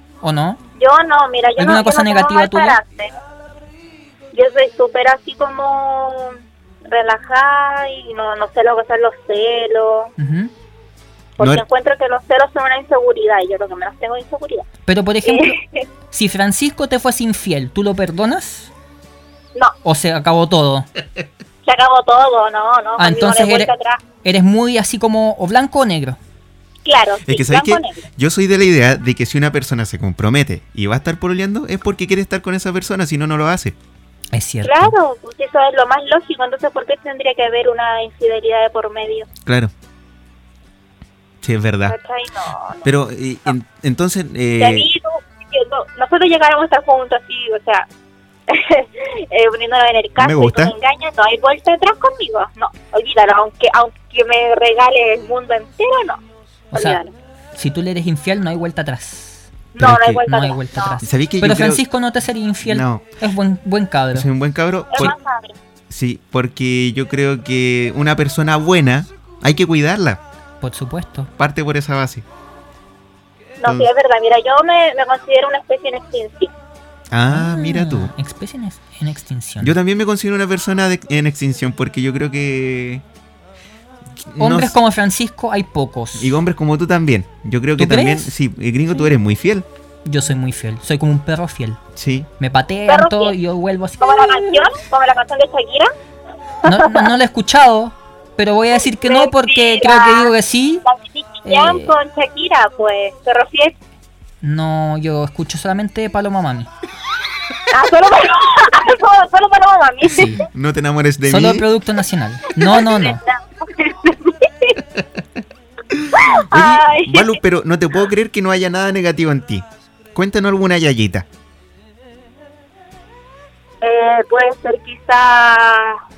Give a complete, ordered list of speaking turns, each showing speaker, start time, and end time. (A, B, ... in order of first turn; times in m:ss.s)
0:00.2-0:00.6 A
0:00.8-0:03.1 B
0:01.6-0:02.8 A
0:04.3-0:10.1 B
0:10.2-0:10.5 A
0:11.4-0:14.7 B
0:11.4-0:11.6 C
0:14.9-0:15.6 A
0:15.2-0:15.9 B
0:16.1-0:18.7 A
0:19.8-0:20.9 A
0:21.6-0:24.0 B
0:23.0-0:23.7 A
0:24.2-0:26.2 A
0:26.8-0:28.0 B
0:27.3-0:33.8 C
0:34.3-0:34.9 A
0:34.6-0:39.3 B
0:39.5-0:39.7 C
0:41.4-0:42.0 C
0:41.9-0:42.9 B
0:42.8-0:44.9 C
0:44.6-0:47.9 B
0:48.5-0:56.2 B
0:50.2-0:50.7 C
0:56.7-0:57.0 A
0:56.7-0:57.1 B
0:57.6-0:59.5 A
0:59.7-1:01.0 B
0:59.8-1:00.2 C
1:00.3-1:04.3 A
1:01.0-1:01.8 C
1:02.6-1:03.0 C
1:04.1-1:05.1 C
1:04.9-1:05.6 B
1:05.9-1:10.2 C
1:10.6-1:11.3 A
1:11.4-1:12.2 C
1:13.6-1:16.5 B
1:13.6-1:13.9 C
1:17.1-1:18.1 C
1:17.3-1:19.8 A
1:19.6-1:23.0 C
1:24.3-1:24.8 C
1:24.4-1:26.4 A
1:26.2-1:29.7 C
1:27.8-1:28.3 A
1:30.0-1:31.8 A
1:32.0-1:32.3 C
1:32.4-1:34.7 A
1:32.9-1:33.4 B
1:34.0-1:35.9 B
1:36.6-1:40.8 A
1:36.6-1:37.1 B
1:38.8-1:40.3 B
1:40.8-1:43.8 B
1:41.4-1:41.9 A
1:44.4-1:46.7 A
1:47.7-1:50.5 B
1:50.0-1:50.4 A
1:50.3-1:51.7 C
1:51.3-1:53.2 A
1:52.5-1:54.8 B
1:55.9-2:01.3 C
1:56.1-1:57.4 B
2:03.8-2:06.0 B